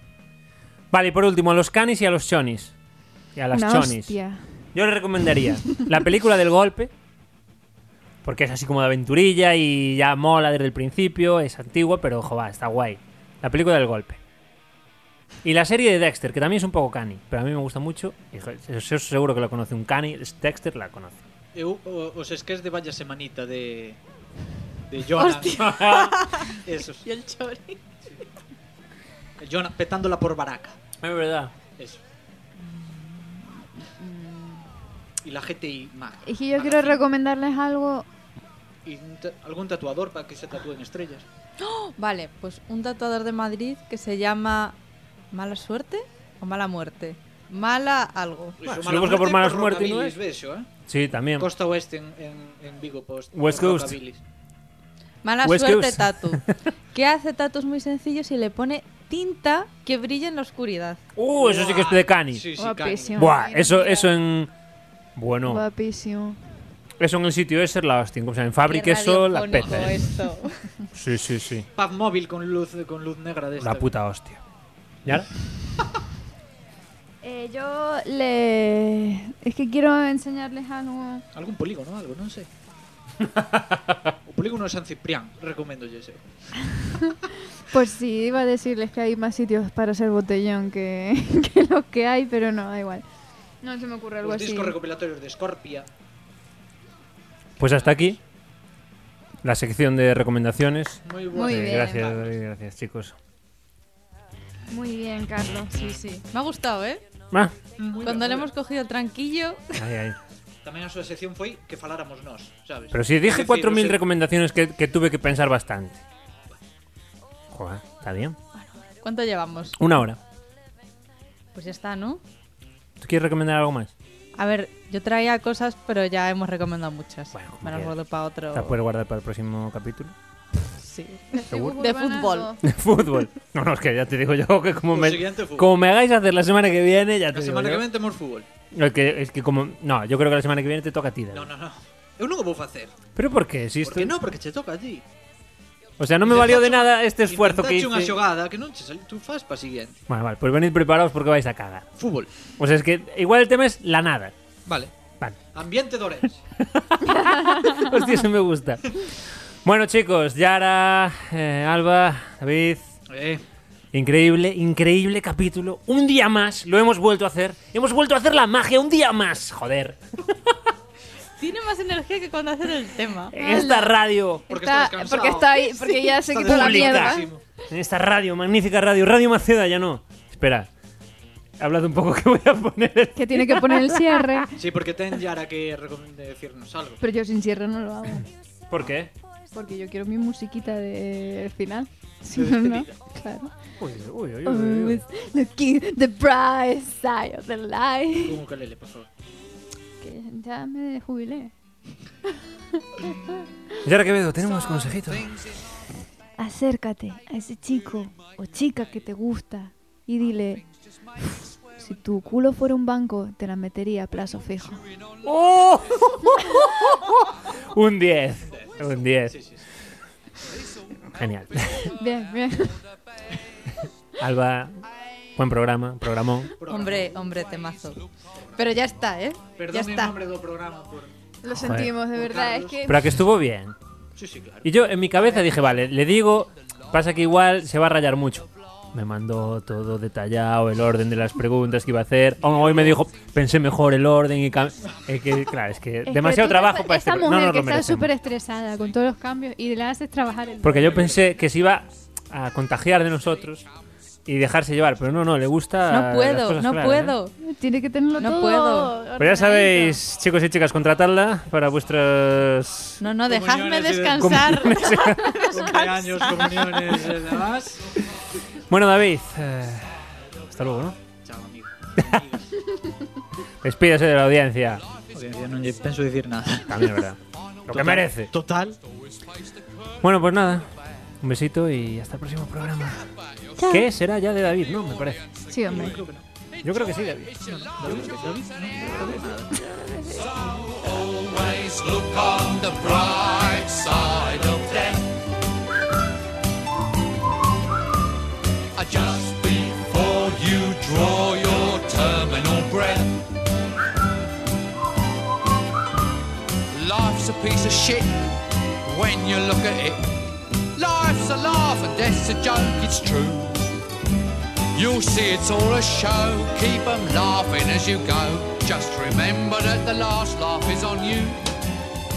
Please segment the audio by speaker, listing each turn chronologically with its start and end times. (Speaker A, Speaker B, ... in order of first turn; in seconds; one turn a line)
Speaker A: 0.9-2.7
Speaker A: 3.3-4.2
Speaker B: 3.5-4.4
Speaker A: 4.7-6.9
Speaker A: 8.2-14.2
Speaker A: 15.4-21.2
Speaker C: 21.5-24.0
Speaker C: 24.9-25.9
Speaker D: 25.1-27.8
Speaker A: 25.4-26.3
Speaker C: 26.6-27.0
Speaker C: 29.4-30.8
Speaker A: 31.0-31.5
Speaker B: 32.6-34.6
Speaker C: 35.2-37.0
Speaker B: 36.2-38.0
Speaker C: 38.8-41.2
Speaker D: 41.6-44.8
Speaker D: 45.3-48.6
Speaker C: 48.6-50.7
Speaker A: 48.6-50.2
Speaker A: 50.9-51.5
Speaker C: 51.4-54.2
Speaker A: 53.3-54.0
Speaker D: 55.2-61.0
Speaker A: 55.4-56.5
Speaker A: 61.1-62.4
Speaker C: 61.4-63.4
Speaker B: 62.6-64.1
Speaker A: 63.2-64.5
Speaker A: 65.2-65.6
Speaker B: 65.4-66.4
Speaker A: 67.0-70.1
Speaker D: 68.7-70.5
Speaker C: 69.6-69.9
Speaker A: 70.9-71.7
Speaker C: 71.7-73.9
Speaker A: 73.6-74.4
Speaker B: 77.2-81.2
Speaker C: 81.3-82.5
Speaker A: 83.2-84.1
Speaker C: 84.2-86.8
Speaker B: 86.9-87.2
Speaker B: 87.7-93.0
Speaker B: 93.6-94.8
Speaker C: 94.2-95.9
Speaker A: 97.6-98.2
Speaker A: 99.4-103.2
Speaker C: 101.0-102.3
Speaker B: 101.3-102.1
Speaker B: 104.7-105.8
Speaker D: 105.7-107.0
Speaker C: 107.8-108.5
Speaker D: 108.0-109.8
Speaker A: 109.8-110.2
Speaker C: 110.6-114.0
Speaker A: 112.9-116.0
Speaker A: 117.5-118.4
Speaker D: 118.5-119.8
Speaker A: 119.8-120.2
Speaker D: 121.5-122.2
Speaker A: 123.0-123.9
Speaker D: 124.3-128.8
Speaker A: 127.3-127.9
Speaker A: 128.5-130.1
Speaker D: 130.8-132.5
Speaker B: 131.3-132.6
Speaker A: 131.5-131.8
Speaker A: 132.6-137.9
Speaker C: 134.9-135.7
Speaker C: 137.3-138.5
Speaker A: 138.7-141.5
Speaker C: 141.3-142.9
Speaker A: 143.2-144.2
Speaker C: 143.8-145.0
Speaker A: 146.0-148.2
Speaker C: 146.2-150.0
Speaker A: 150.1-151.9
Speaker C: 152.0-152.3
Speaker A: 152.6-154.3
Speaker C: 154.7-154.9
Speaker C: 155.5-156.4
Speaker A: 156.6-162.9
Speaker B: 157.0-157.8
Speaker C: 163.1-163.4
Speaker A: 163.9-170.6
Speaker D: 171.4-173.4
Speaker A: 173.3-174.4
Speaker B: 173.3-173.9
Speaker B: 174.5-177.3
Speaker C: 174.5-177.4
Speaker A: 176.4-180.7
Speaker A: 181.6-184.4
Speaker B: 183.2-184.5
Speaker C: 184.6-187.0
Speaker B: 187.0-188.3
Speaker A: 188.7-189.1
Speaker B: 189.5-193.5
Speaker C: 192.3-192.9
Speaker A: 193.8-195.0
Speaker B: 194.4-198.4
Speaker C: 198.2-199.1
Speaker B: 200.0-201.5
Speaker B: 202.3-203.8
Speaker A: 203.8-205.4
Speaker B: 204.5-204.9
Speaker B: 206.4-210.6
Speaker B: 211.2-214.9
Speaker A: 215.2-219.4
Speaker C: 218.4-219.6
Speaker A: 221.1-221.9
Speaker B: 221.8-222.8
Speaker A: 224.2-224.8
Speaker A: 225.3-226.5
Speaker C: 226.6-227.3
Speaker D: 226.7-230.2
Speaker C: 228.3-228.7
Speaker C: 229.6-231.1
Speaker B: 231.4-233.0
Speaker A: 231.5-231.9
Speaker C: 232.1-232.8
Speaker A: 232.8-233.7
Speaker C: 234.2-235.6
Speaker A: 234.6-248.1
Speaker C: 242.5-243.0
Speaker B: 246.1-251.2
Speaker A: 250.6-253.7
Speaker A: 254.2-257.1
Speaker D: 255.9-257.4
Speaker B: 257.4-260.0
Speaker D: 258.2-259.0
Speaker A: 259.2-263.0
Speaker D: 263.0-267.0
Speaker C: 263.2-264.7
Speaker A: 264.1-265.4
Speaker C: 265.5-267.8
Speaker A: 268.7-271.0
Speaker C: 271.2-272.5
Speaker A: 272.0-272.2
Speaker A: 273.6-274.8
Speaker C: 275.1-276.9
Speaker A: 276.7-278.3
Speaker C: 277.7-278.8
Speaker A: 280.0-280.7
Speaker A: 281.2-283.1
Speaker B: 283.6-283.9
Speaker A: 283.6-285.2
Speaker B: 285.5-286.0
Speaker C: 285.6-286.2
Speaker A: 286.6-287.4
Speaker C: 287.5-289.5
Speaker E: 287.6-288.4
Speaker A: 288.8-289.4
Speaker E: 290.0-295.2
Speaker E: 298.7-303.2
Speaker E: 306.7-310.2
Speaker E: 310.7-313.7
Speaker E: 314.7-321.5